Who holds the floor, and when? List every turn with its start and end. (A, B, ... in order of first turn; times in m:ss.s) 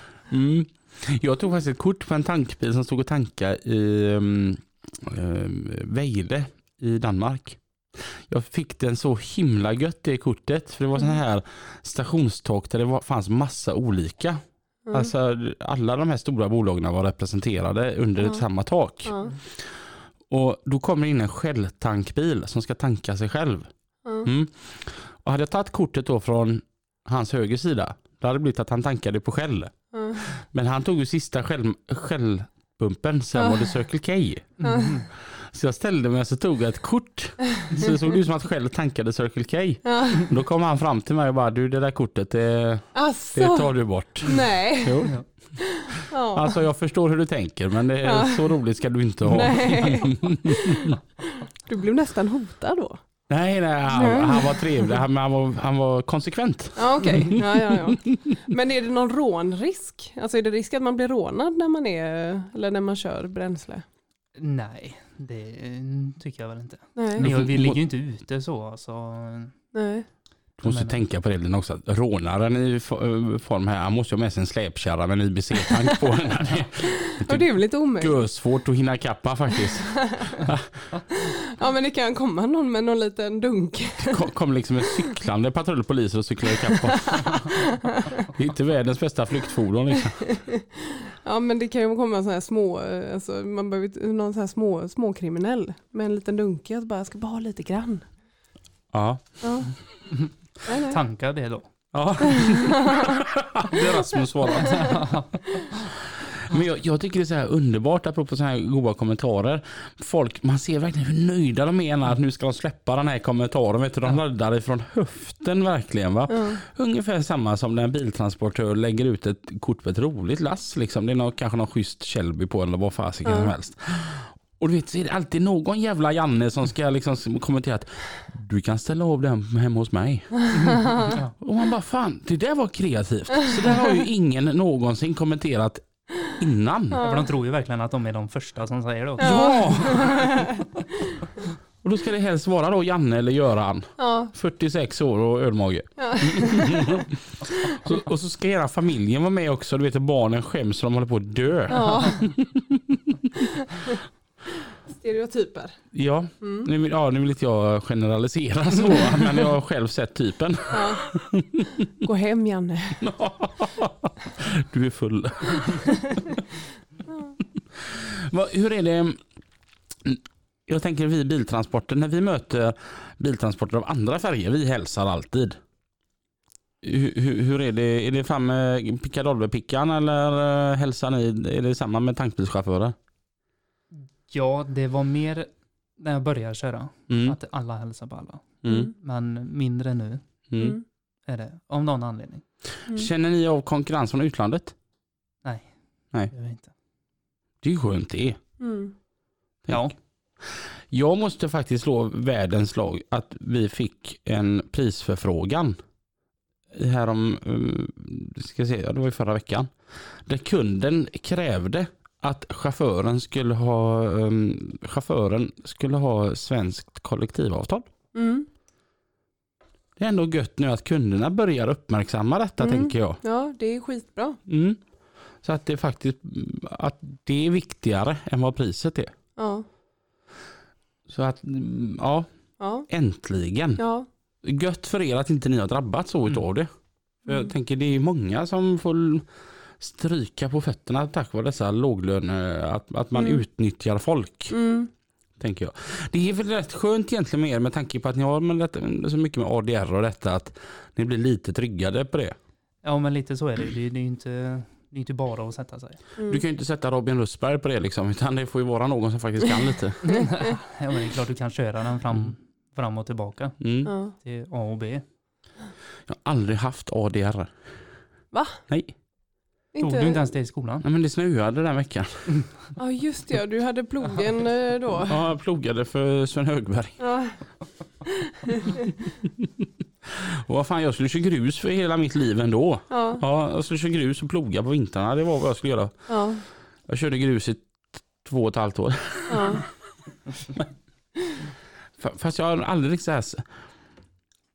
0:00.3-0:50.4 A
0:19.0-0:19.3 B
0:24.0-0:24.3 B
0:29.9-0:30.2 B
0:33.4-0:33.7 B
0:34.6-0:35.1 C
0:34.6-0:34.9 B
0:39.8-0:40.3 B
0:43.0-0:45.2 B
0:45.9-0:46.6 B
0:48.0-0:48.5 B
0:49.3-0:51.0 B
0:51.6-0:53.0 B
0:53.3-0:57.9 A
0:53.9-0:55.0 B
0:56.8-1:03.8 B
1:04.4-1:09.6 C
1:07.0-1:07.3 B
1:07.2-1:07.8 A
1:09.7-1:10.1 B
1:10.6-1:20.8 A
1:10.6-1:11.0 C
1:17.1-1:18.2 B
1:21.6-1:24.3 B
1:24.0-1:27.5 A
1:26.5-1:28.0 B
1:28.3-1:30.6 A
1:31.2-1:38.2 B
1:38.9-1:39.9 A
1:39.4-1:40.0 B
1:40.7-1:41.0 B
1:40.9-1:42.2 C
1:41.9-1:45.1 A
1:44.5-1:45.6 C
1:46.5-2:17.0 A
1:56.3-1:56.6 B
2:03.2-2:03.5 B
2:10.5-2:11.4 C
2:16.9-2:17.3 B
2:17.0-2:20.2 C
2:19.2-2:20.3 B
2:19.2-2:20.3 A
2:21.8-2:27.0 A
2:24.0-2:24.3 B
2:26.0-2:27.0 B
2:27.7-2:32.8 A
2:31.7-2:32.3 B
2:34.9-2:35.8 B
2:35.9-2:41.6 A
2:36.4-2:36.7 B
2:40.7-2:41.2 B
2:42.0-2:43.1 B
2:43.0-2:45.9 A
2:47.1-2:47.4 B
2:47.8-2:49.2 A
2:50.0-2:55.6 A
2:56.8-3:03.0 A
3:03.9-3:10.4 C
3:07.1-3:07.4 A
3:08.6-3:08.9 A
3:10.5-3:10.8 A
3:10.6-3:10.8 B
3:11.2-3:12.4 C
3:12.9-3:14.8 A
3:15.4-3:16.7 C
3:17.6-3:18.4 A
3:18.6-3:18.9 B
3:19.6-3:25.8 A
3:19.7-3:19.9 C
3:26.7-3:37.9 A
3:38.1-3:38.5 B
3:40.0-3:43.2 A
3:42.6-3:44.4 B
3:44.5-3:49.1 A
3:49.4-3:49.6 B
3:51.1-3:53.9 A
3:52.6-3:52.9 B
3:53.8-3:54.1 B
3:54.4-4:04.6 A
3:57.3-3:57.5 B
4:03.2-4:03.4 B
4:04.5-4:04.9 B
4:05.4-4:12.4 A
4:12.8-4:16.0 C
4:16.2-4:16.4 B
4:16.3-4:20.3 A
4:20.2-4:25.0 C
4:23.6-4:23.9 A
4:23.8-4:24.1 B
4:26.1-4:29.0 A
4:28.3-4:28.6 B
4:29.7-4:30.2 B
4:29.8-4:30.8 C
4:30.8-4:32.4 A
4:32.8-4:35.2 B
4:35.1-4:37.0 A
4:37.0-4:38.0 B
4:40.4-4:49.6 A
4:42.9-4:43.2 B
4:46.1-4:46.4 B
4:49.3-4:49.6 B
4:52.0-4:53.5 A